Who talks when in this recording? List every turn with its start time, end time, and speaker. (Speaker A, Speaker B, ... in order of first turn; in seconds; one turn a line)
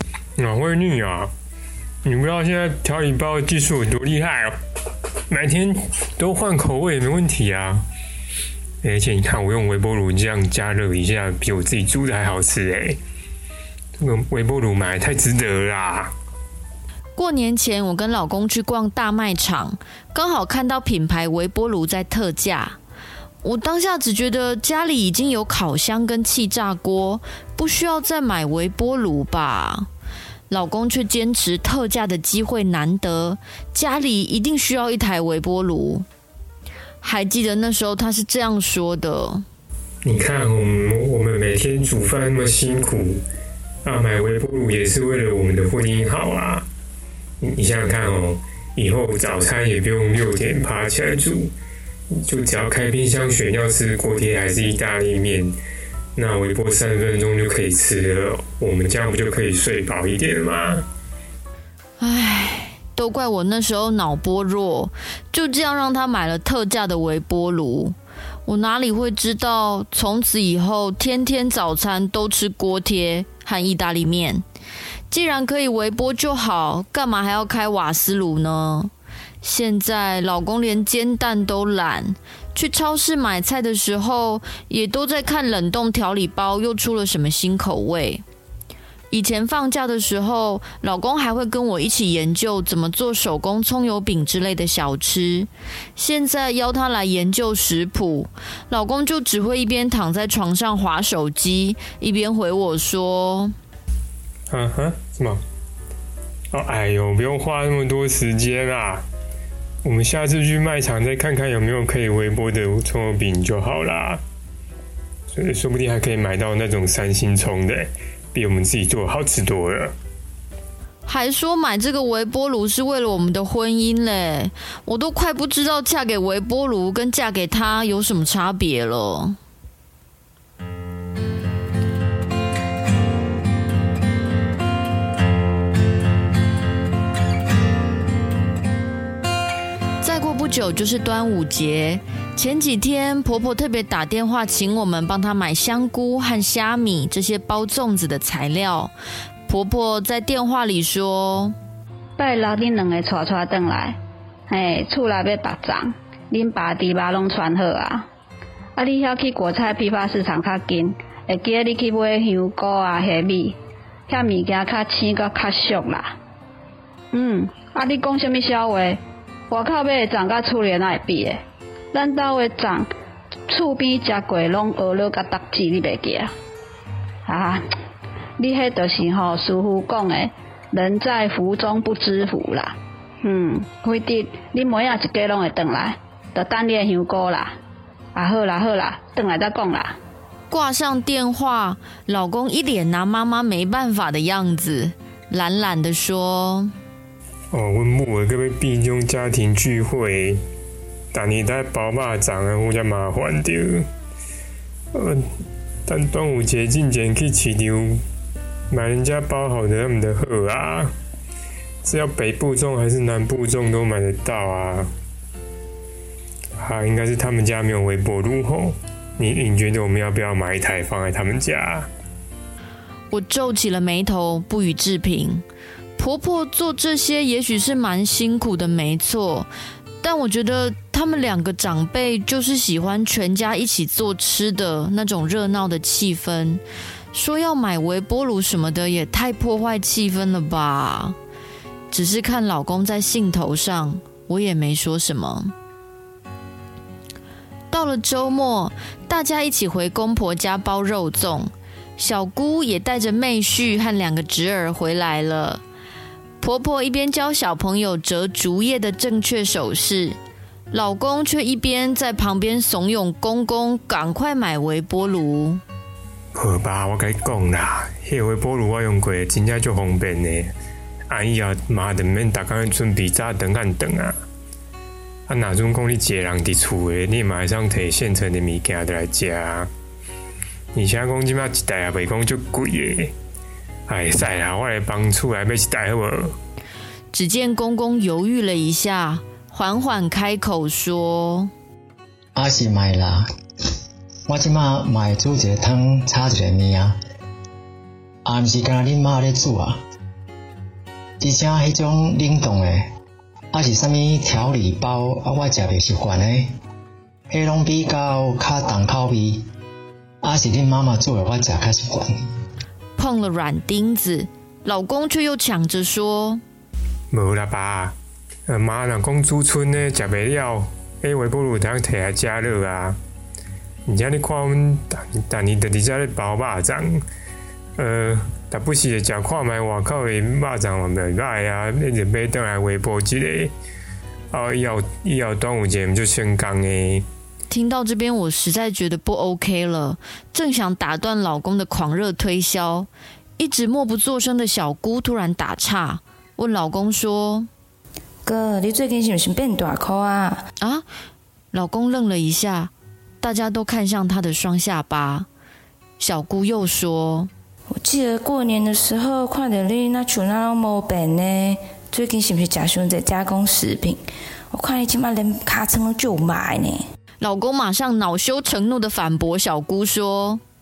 Speaker A: 0.4-1.3
Speaker A: 2.0-4.5
Speaker A: 5.3-7.8
Speaker A: 8.8-13.0
Speaker A: 14.0-16.1
Speaker B: 17.1-22.8
Speaker B: 23.4-29.9
Speaker B: 30.5-36.0
Speaker B: 37.0-39.4
Speaker A: 40.0-43.2
Speaker A: 43.8-46.6
Speaker A: 47.4-51.5
Speaker A: 52.2-55.5
Speaker A: 56.1-60.8
Speaker B: 62.0-74.4
Speaker B: 75.1-78.9
Speaker B: 79.4-88.2
Speaker B: 89.1-103.5
Speaker A: 104.5-105.4
Speaker A: 106.5-109.0
Speaker A: 109.8-114.2
Speaker A: 115.3-119.9
Speaker B: 121.0-129.4
Speaker B: 140.0-148.9
Speaker B: 149.5-151.5
Speaker C: 152.2-154.0
Speaker C: 154.5-158.1
Speaker C: 158.8-163.6
Speaker C: 164.1-166.1
Speaker C: 167.1-171.4
Speaker C: 171.9-172.9
Speaker C: 173.5-176.3
Speaker C: 177.2-177.6
Speaker C: 178.4-187.5
Speaker C: 188.1-189.9
Speaker B: 190.5-196.7
Speaker A: 197.5-200.4
Speaker A: 201.1-203.8
Speaker A: 204.9-205.2
Speaker A: 205.8-208.0
Speaker A: 208.7-210.9
Speaker A: 211.8-214.9
Speaker A: 216.6-221.9
Speaker B: 223.1-225.4
Speaker B: 226.0-229.5
Speaker B: 230.0-236.6
Speaker B: 237.1-241.2
Speaker B: 241.9-245.5
Speaker B: 247.7-255.6
Speaker B: 256.4-260.2
Speaker B: 260.7-265.6
Speaker A: 266.3-270.5
Speaker A: 271.1-274.1
Speaker A: 275.3-279.7
Speaker A: 280.7-283.1
Speaker A: 283.9-286.4
Speaker B: 287.1-291.5
Speaker D: 292.3-293.3
Speaker D: 294.3-297.0
Speaker D: 298.2-299.8
Speaker D: 301.2-302.9
Speaker D: 303.5-306.5
Speaker D: 307.3-309.4
Speaker D: 310.2-312.2
Speaker B: 313.0-316.4
Speaker A: 317.1-317.9
Speaker A: 318.5-323.0
Speaker A: 323.9-327.0
Speaker A: 327.8-333.5
Speaker A: 334.3-337.0
Speaker B: 337.5-347.5
Speaker E: 348.2-350.4
Speaker B: 350.6-350.8
Speaker B: 351.5-355.3
Speaker B: 356.0-357.3
Speaker E: 357.8-364.0
Speaker E: 364.5-366.8
Speaker B: 367.2-370.4